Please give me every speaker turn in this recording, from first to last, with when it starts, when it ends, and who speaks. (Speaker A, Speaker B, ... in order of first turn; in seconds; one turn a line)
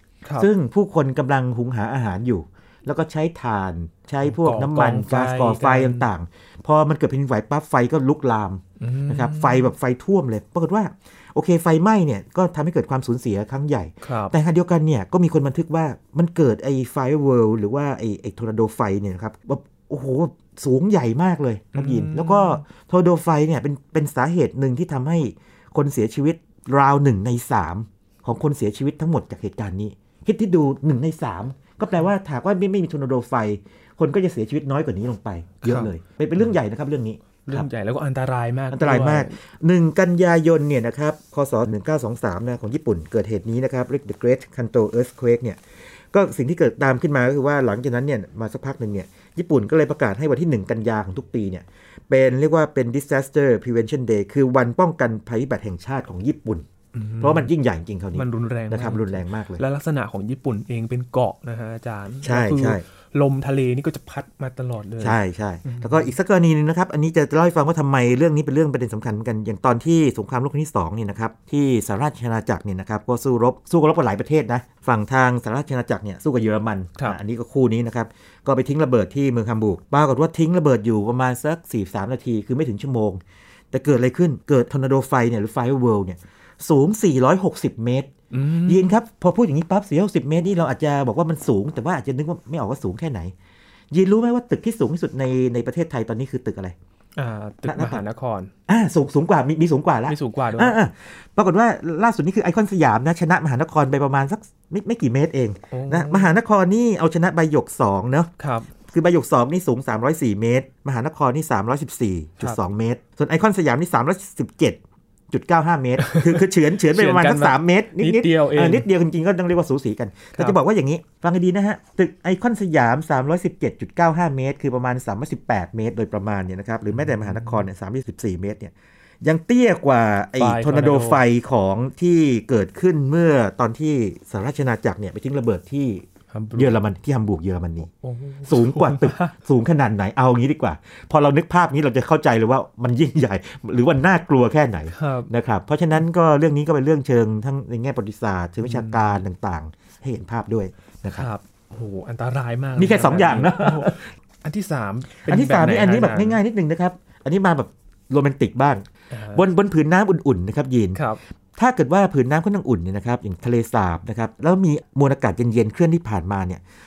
Speaker A: 0.4-37.7
Speaker B: 4.2-6.1
Speaker B: 8.8-9.7
Speaker B: 14.0-14.3
Speaker B: 21.7-22.6
Speaker B: 35.6-35.9
Speaker B: 37.4-39.4
Speaker A: 38.7-45.6
Speaker A: 46.1-56.6
Speaker B: 56.9-57.5
Speaker A: 57.2-59.6
Speaker B: 58.1-66.1
Speaker A: 62.2-62.8
Speaker A: 65.0-83.2
Speaker A: 83.7-88.1
Speaker B: 88.3-88.9
Speaker A: 88.7-93.3
Speaker A: 93.9-96.7
Speaker B: 97.2-98.5
Speaker A: 97.7-98.0
Speaker A: 98.7-108.3
Speaker B: 100.1-100.8
Speaker B: 105.7-106.3
Speaker B: 108.4-108.7
Speaker A: 108.9-114.8
Speaker A: 115.3-137.9
Speaker B: 116.0-118.8
Speaker B: 126.9-127.6
Speaker B: 130.4-131.2
Speaker B: 136.3-136.8
Speaker B: 138.0-139.3
Speaker A: 138.4-151.3
Speaker B: 144.9-145.3
Speaker B: 148.6-149.2
Speaker B: 151.1-156.4
Speaker A: 152.8-154.0
Speaker A: 155.2-161.0
Speaker B: 159.1-159.4
Speaker B: 160.9-161.2
Speaker A: 161.6-166.6